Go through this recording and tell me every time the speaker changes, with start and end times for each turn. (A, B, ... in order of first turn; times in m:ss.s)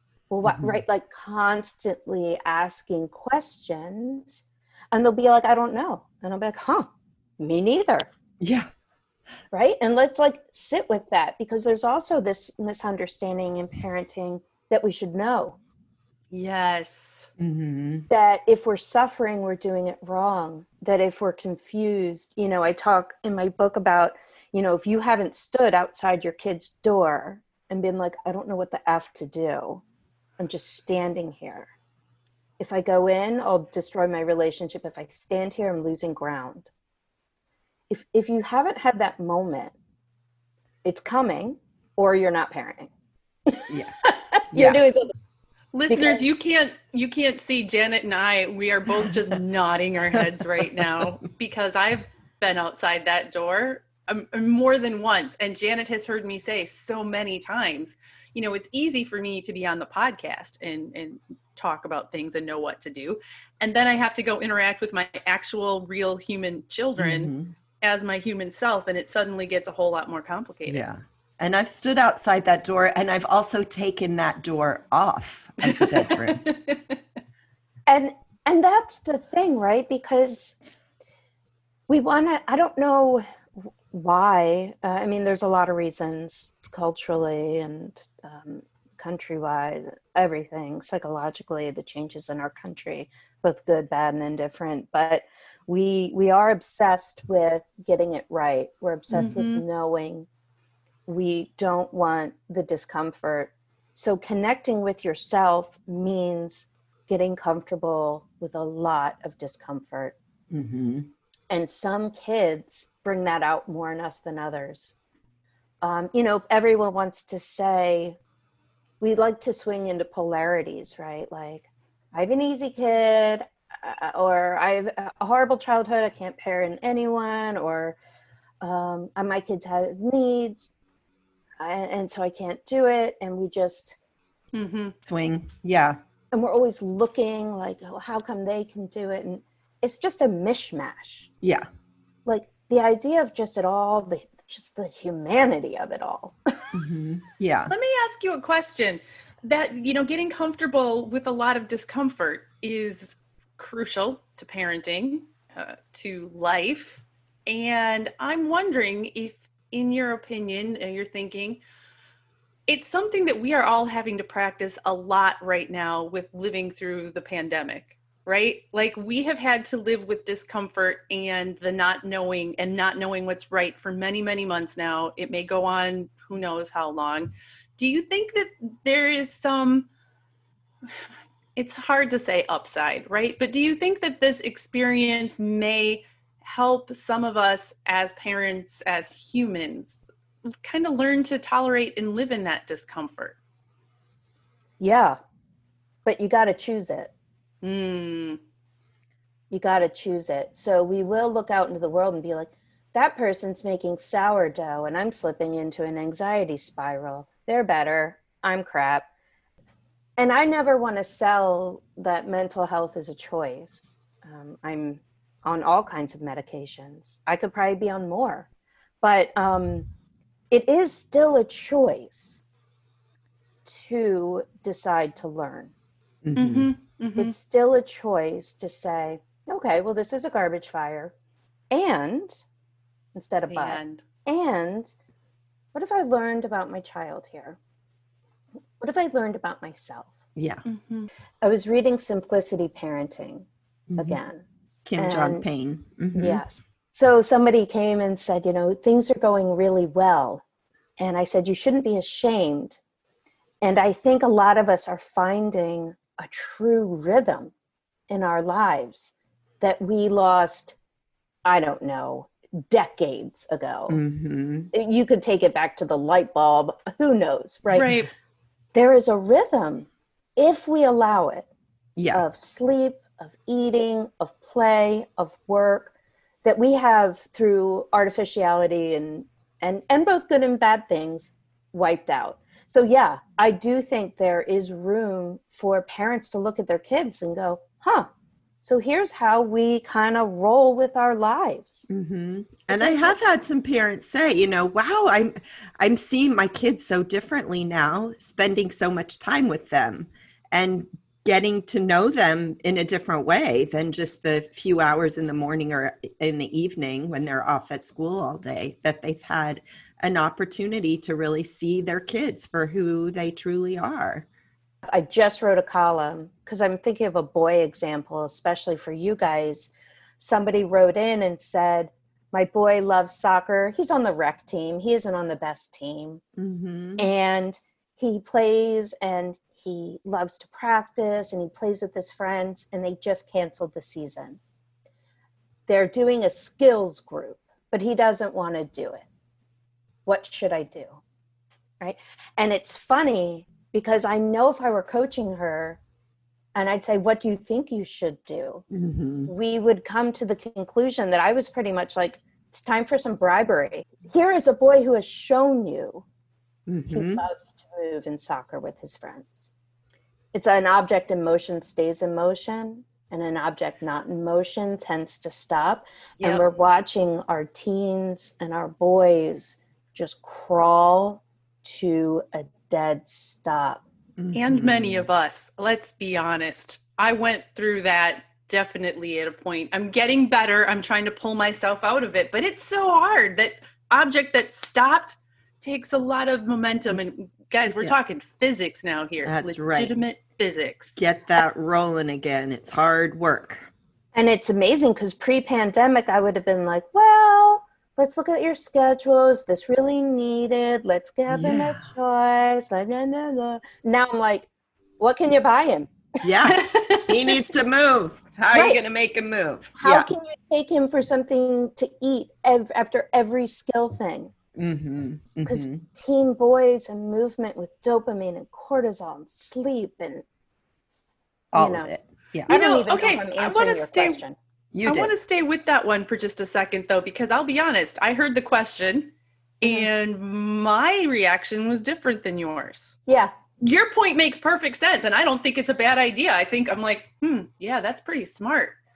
0:00.3-0:08.1 A
0:00.4-0:00.8 B
0:08.4-0:08.7 B
0:09.5-0:15.6 A
0:16.3-0:17.3 C
0:17.4-0:18.1 B
0:18.1-0:29.8 A
0:30.4-0:31.7 A
0:32.6-0:36.7 A
0:37.9-0:39.7 A
0:40.8-0:42.9 A
0:43.5-0:45.1 A
0:43.7-0:44.8 B
0:45.7-1:10.8 C
0:45.9-0:46.2 A
1:07.0-1:07.5 B
1:10.7-1:16.4 B
1:15.6-1:17.0 C
1:17.9-1:20.6 A
1:21.9-1:23.2 A
1:23.9-1:40.3 A
1:39.1-1:39.6 C
1:41.1-1:50.2 A
1:50.5-1:51.1 B
1:51.5-1:55.0 A
1:55.8-1:58.2 A
1:59.0-2:08.0 A
2:08.6-2:10.7 A
2:11.6-2:14.0 A
2:14.5-2:14.9 C
2:15.0-2:16.0 B
2:16.3-2:21.3 A
2:22.2-2:26.6 A
2:26.7-2:27.7 B
2:27.7-2:41.6 C
2:42.7-2:59.9 C
3:01.6-3:10.0 C
3:10.6-3:13.4 C
3:14.8-3:15.2 A
3:16.0-3:17.1 A
3:17.6-3:18.4 C
3:19.5-3:29.1 A
3:30.2-3:38.5 A
3:39.0-3:39.9 A
3:40.5-3:42.4 A
3:43.6-3:45.7 A
3:46.2-3:46.7 B
3:46.4-3:47.3 C
3:47.2-3:51.1 A
3:51.7-3:52.4 A
3:53.1-3:55.0 A
3:53.5-3:54.0 C
3:55.7-3:57.6 A
3:58.8-4:00.2 A
4:00.4-4:00.6 B
4:00.6-4:01.1 C
4:01.4-4:04.4 A
4:03.9-4:04.2 B
4:04.8-4:06.4 B
4:05.0-4:05.4 A
4:06.1-4:10.4 A
4:11.0-4:12.8 A
4:13.6-4:17.5 A
4:18.1-4:20.8 A
4:21.4-4:24.0 A
4:23.9-4:24.7 B
4:24.7-4:27.9 A
4:27.7-4:28.1 C
4:28.7-4:31.5 A
4:32.0-4:32.2 B
4:32.1-4:48.1 A
4:48.6-4:51.9 A
4:51.9-5:14.3 B
4:52.7-4:53.2 A
5:14.9-5:26.2 A
5:26.4-5:27.1 B
5:27.0-5:34.4 A
5:35.7-5:39.0 A
5:40.0-5:41.0 A
5:41.8-5:45.8 A
5:46.5-5:48.6 A
5:48.7-5:49.3 B
5:49.3-5:56.0 A
5:56.7-5:57.2 B
5:56.9-5:59.5 A
6:00.3-6:13.8 A
6:14.2-6:15.1 B
6:14.3-6:31.0 C
6:27.6-6:27.9 B
6:29.2-6:29.9 B
6:31.0-6:33.7 B
6:34.1-6:44.5 A
6:41.3-6:41.9 B
6:45.0-6:46.0 A
6:46.2-6:50.1 B
6:46.4-6:47.3 C
6:48.5-6:48.8 A
6:49.8-6:54.3 A
6:54.5-6:55.8 B
6:55.4-7:00.2 A
7:01.5-7:02.5 B
7:01.5-7:01.9 A
7:02.5-7:04.2 C
7:02.5-7:04.4 A
7:04.7-7:05.1 B
7:04.8-7:13.0 C
7:13.1-7:13.3 A
7:13.6-7:18.8 C